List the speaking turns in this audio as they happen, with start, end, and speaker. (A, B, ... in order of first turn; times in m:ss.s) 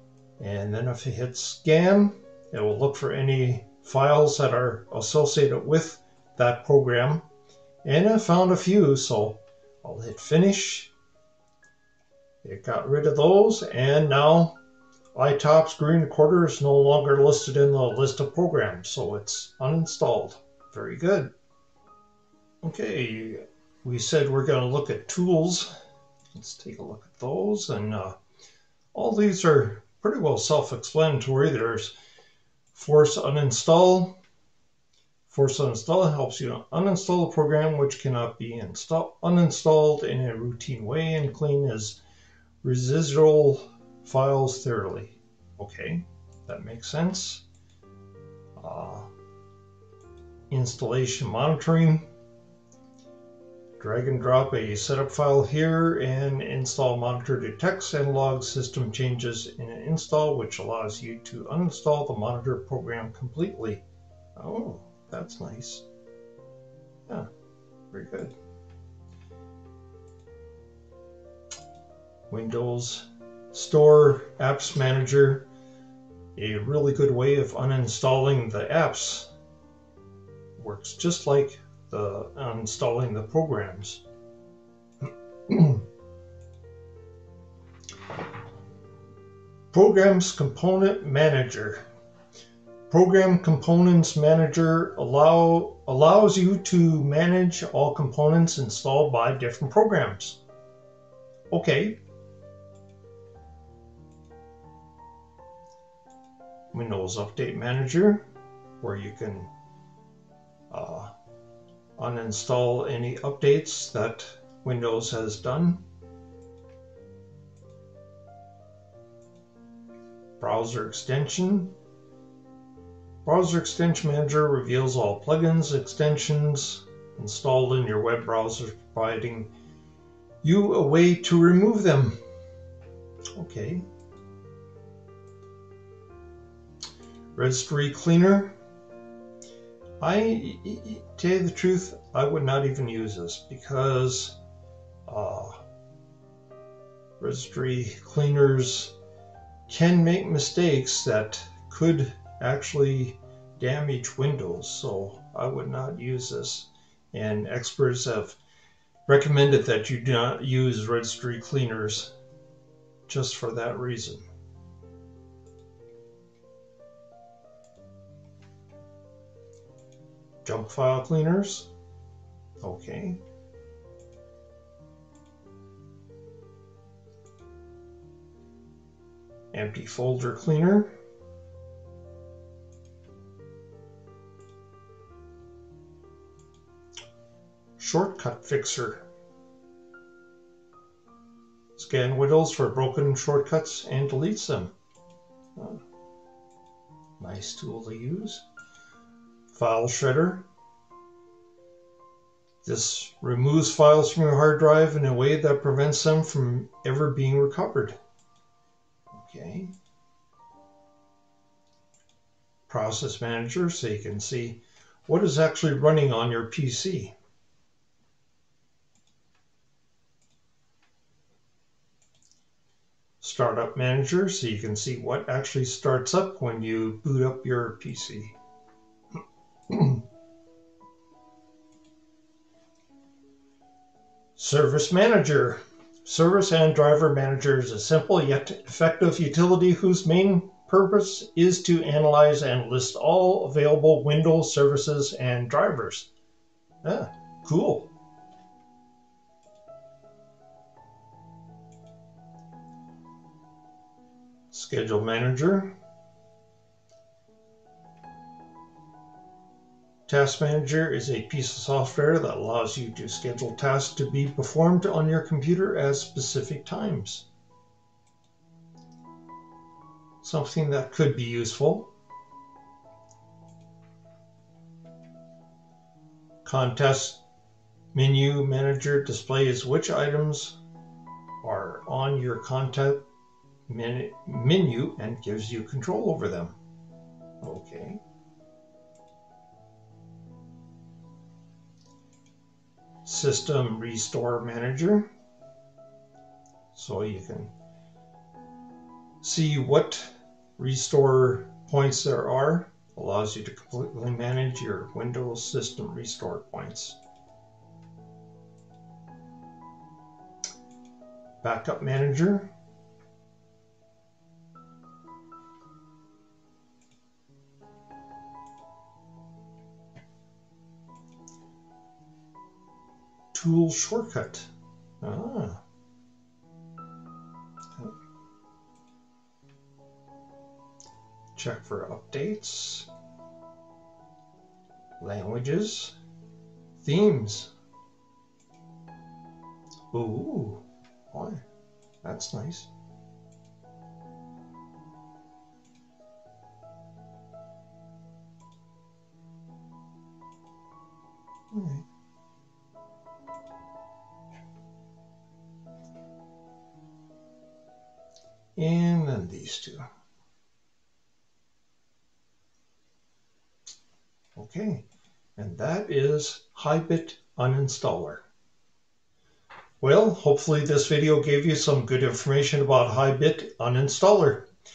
0:00.4-0:07.2 A
0:07.8-0:10.9 A
0:12.4-0:14.6 A
0:15.1-0:21.3 A
0:22.6-0:25.7 A
0:26.3-0:28.2 A
0:28.9-0:31.9 A
0:32.7-0:34.2 A
0:35.3-0:42.0 A
0:42.6-0:47.4 A
0:48.6-0:49.1 A
0:50.5-0:52.1 A
0:53.8-1:03.8 A
1:04.4-1:05.8 A
1:07.9-1:08.3 A
1:12.3-1:15.5 A
1:16.4-1:19.3 A
1:20.6-1:24.0 A
1:25.5-1:25.8 A
1:29.7-1:31.8 A
1:32.9-1:40.4 A
1:41.5-1:42.0 A
1:46.7-1:48.2 A
1:48.8-1:49.5 A
1:50.7-1:51.1 A
1:52.0-1:55.8 A
2:00.4-2:01.7 A
2:03.2-2:09.5 A
2:10.4-2:12.2 A
2:13.3-2:13.8 A
2:17.3-2:18.6 A
2:20.0-2:24.4 A
2:25.1-2:25.6 A
2:27.2-2:28.9 A
2:29.7-2:38.4 A
2:39.0-2:42.1 A
2:43.1-2:44.2 A
2:50.4-2:51.7 A
2:52.6-2:53.2 A
2:59.5-3:00.9 A
3:07.8-3:09.0 A
3:11.8-3:14.7 A
3:15.6-3:15.8 A
3:17.2-3:18.4 A
3:19.5-3:20.5 A
3:22.6-3:28.0 A
3:29.1-3:29.7 A
3:32.7-3:37.1 A
3:43.2-3:48.3 A
3:49.7-3:50.0 A
3:54.4-4:06.1 A
4:06.8-4:07.9 A
4:14.5-4:15.8 A
4:20.1-4:27.3 A
4:30.2-4:31.9 A
4:36.4-4:37.2 A
4:37.9-4:40.6 A
4:41.4-4:43.0 A
4:43.7-4:46.6 A
4:47.4-4:48.0 A
4:53.0-4:55.1 A
4:56.7-4:57.5 A
4:59.2-5:07.0 A
5:11.4-5:12.5 A
5:23.3-5:24.5 A
5:25.0-5:25.6 A
5:31.3-5:32.9 A
5:35.0-5:36.0 A
5:36.8-5:37.5 A
5:39.9-5:41.4 A
5:42.0-5:42.7 A
5:51.5-5:51.8 A
5:58.6-5:59.8 A
6:04.4-6:04.8 A
6:05.4-6:08.2 A
6:09.8-6:14.5 A